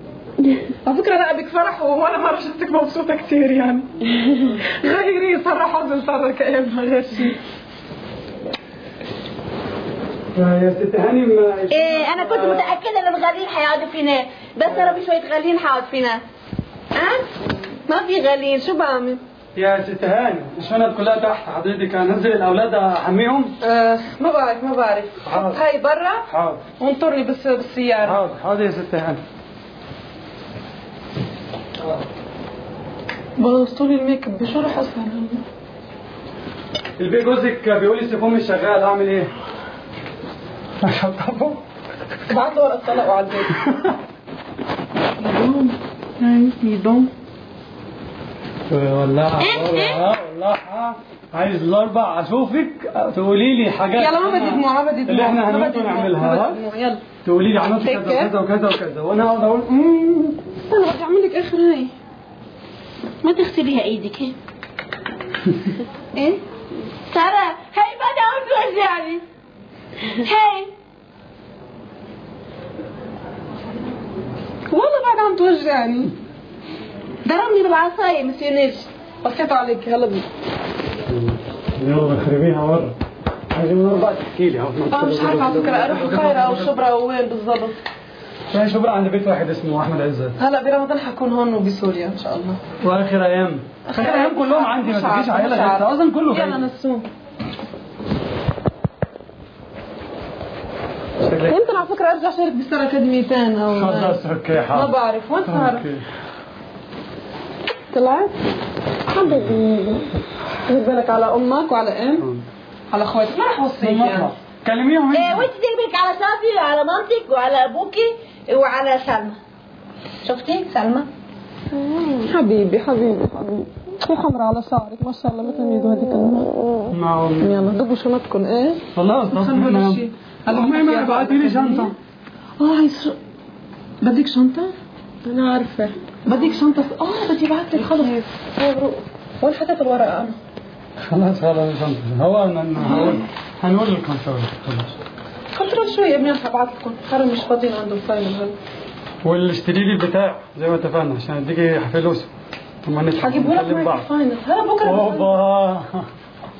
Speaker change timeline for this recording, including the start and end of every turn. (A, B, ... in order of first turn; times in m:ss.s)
0:00.8-0:07.4 A
0:10.3-0:12.8 B
0:11.7-0:16.2 C
0:14.6-0:15.0 B
0:17.0-0:17.3 C
0:17.9-0:19.2 C
0:19.5-0:23.5 B
0:23.6-0:26.2 A
0:25.2-0:25.6 B
0:26.3-0:26.6 B
0:26.8-0:28.2 A
0:28.0-0:29.2 B
0:33.4-0:35.4 A
0:37.0-0:39.3 B
0:40.8-0:41.6 B
0:42.3-0:43.6 A
0:43.5-0:44.0 B
0:45.2-0:47.1 A
0:48.7-0:56.6 B
0:49.4-0:50.0 C
0:54.0-0:57.0 A
0:57.2-1:00.0 B
0:57.8-0:58.3 A
1:00.0-1:01.9 A
1:03.2-1:04.3 C
1:06.1-1:06.4 C
1:07.1-1:09.2 C
1:10.0-1:10.7 C
1:14.7-1:16.1 A
1:17.2-1:18.9 C
1:19.2-1:20.2 A
1:21.1-1:23.0 B
1:23.5-1:26.8 B
1:24.9-1:27.8 A
1:28.5-1:30.4 B
1:30.4-1:32.6 A
1:32.8-1:36.6 B
1:33.8-1:37.0 A
1:41.2-1:41.6 B
1:41.5-1:45.9 A
1:43.7-1:44.9 B
1:45.4-1:46.1 B
1:47.9-1:48.3 A
1:49.1-1:50.1 A
1:49.2-1:49.6 B
1:50.6-1:52.3 A
1:52.2-1:52.4 B
1:52.9-1:54.3 A
1:53.8-1:55.5 B
1:55.1-1:59.4 C
2:00.2-2:01.1 C
2:01.8-2:02.3 C
2:02.2-2:06.5 A
2:06.9-2:07.7 B
2:07.4-2:11.9 A
2:08.9-2:11.9 B
2:12.6-2:13.2 A
2:14.0-2:14.7 A
2:15.2-2:15.9 C
2:16.2-2:20.4 A
2:18.0-2:18.2 C
2:21.0-2:25.0 B
2:25.5-2:28.6 A
2:29.2-2:32.3 B
2:32.8-2:34.1 B
2:33.2-2:35.4 A
2:34.8-2:36.1 B